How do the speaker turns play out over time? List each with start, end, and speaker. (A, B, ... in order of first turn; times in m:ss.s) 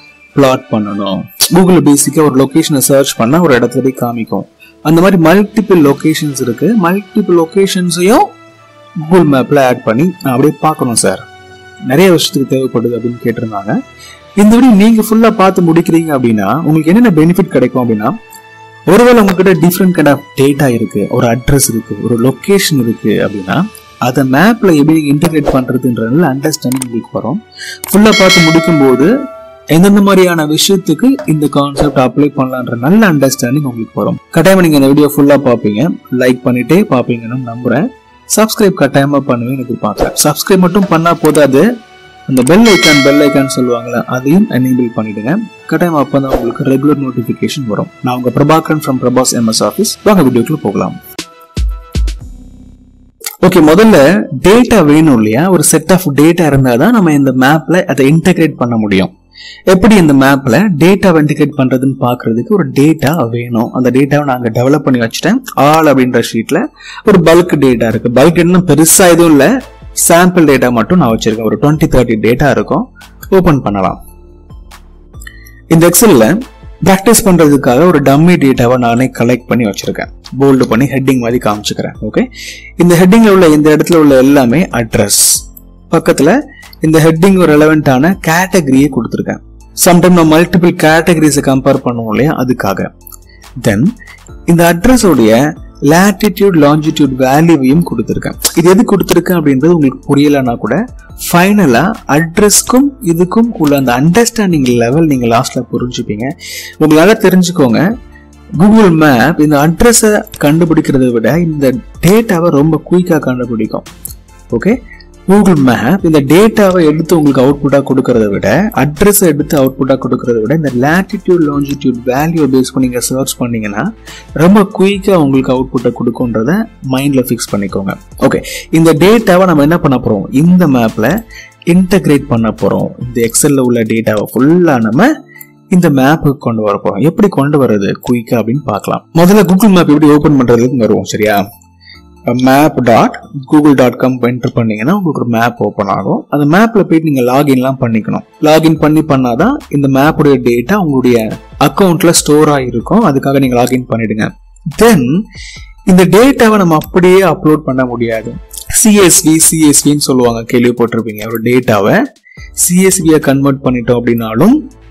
0:00.3-0:08.2 A
0:09.0-0:11.2 A
0:11.9-0:13.7 A
0:14.4-0:18.1 A
0:18.9-0:29.1 A
0:29.7-0:41.6 A
0:42.3-0:50.9 A
0:53.4-0:59.1 A
0:59.7-1:14.0 A
1:15.7-1:22.2 A
1:22.8-1:32.9 A
1:33.6-1:33.9 A
1:34.5-1:35.4 A
1:35.9-1:47.8 A
1:48.6-1:53.8 A
1:55.3-2:03.8 A
2:04.4-2:11.1 A
2:11.7-2:15.1 A
2:15.7-2:21.4 A
2:22.3-2:35.1 A
2:35.9-2:42.0 A
2:42.6-2:44.6 A